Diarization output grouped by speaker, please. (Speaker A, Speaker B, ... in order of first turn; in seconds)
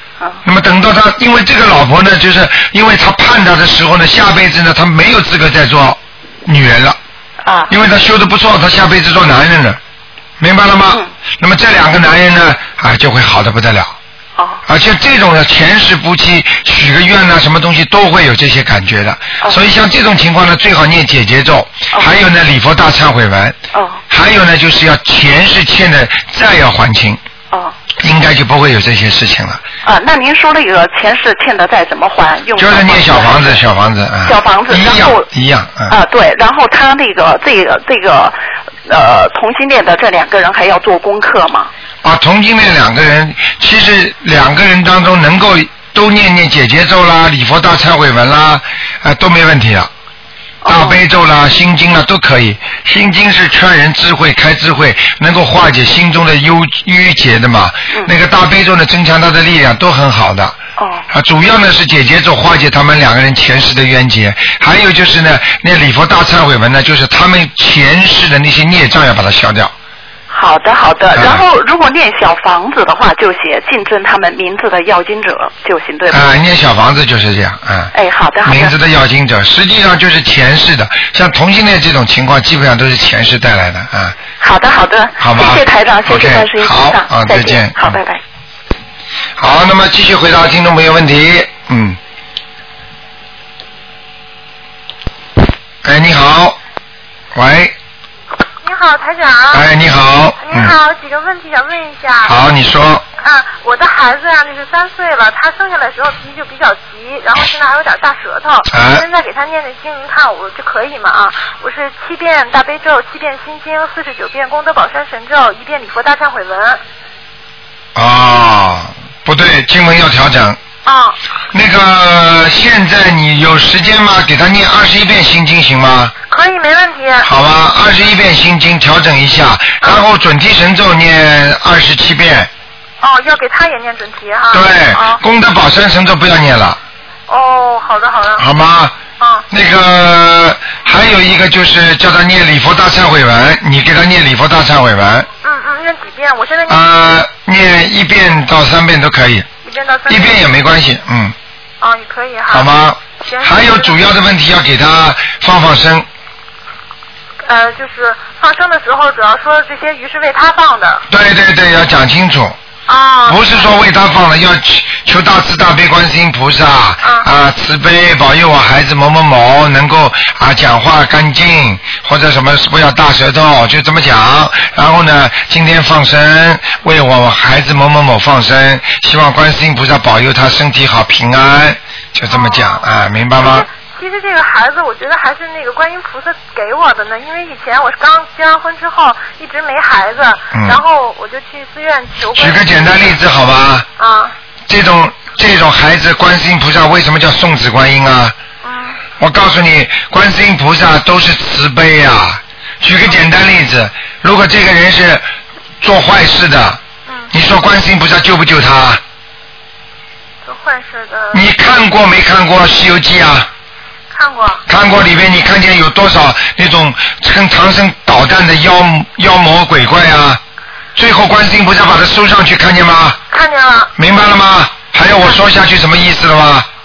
Speaker A: 0.4-7.0, 7.7-9.8, 10.4-13.9, 14.7-23.6, 24.1-27.2, 28.0-29.6, 32.6-36.0, 42.0-49.9, 50.7-60.6, 61.1-69.7, 71.2-71.4, 76.1-77.9, 78.4-84.2, 85.2-88.0, 89.4-92.0, 95.8-96.6, 97.3-97.7, 99.5-100.8, 102.2-103.0, 108.7-109.0, 118.0-120.6, 121.5-126.1, 127.2-132.5, 134.5-136.8, 138.4-139.0, 139.5-145.3, 146.7-149.5, 150.1-151.3, 152.5-156.1, 161.1-162.6, 163.3-183.7, 190.5-190.8, 192.3-193.9, 194.7-198.4, 199.2-205.2, 205.8-206.8, 207.3-209.0, 211.3-213.5, 214.7-220.4, 220.9-223.2, 224.0-226.7
Speaker B: 7.4-7.7, 14.4-14.6, 23.7-24.0, 29.8-33.6, 34.2-35.3, 35.9-38.4, 38.9-41.7, 50.6-51.0, 60.8-61.0, 70.3-76.3, 77.9-78.7, 84.4-88.2
Speaker C: 98.6-99.7, 100.4-102.4, 103.2-116.8, 120.8-121.2, 126.3-127.3, 133.0-135.2, 137.3-138.5, 139.2-139.4, 145.4-146.9, 149.6-150.4, 151.8-154.0, 157.4-161.0, 162.9-163.7, 167.0-167.3, 182.3-182.9, 183.4-193.2, 194.0-194.3, 198.6-199.1, 210.4-211.5, 214.1-214.6, 223.3-223.9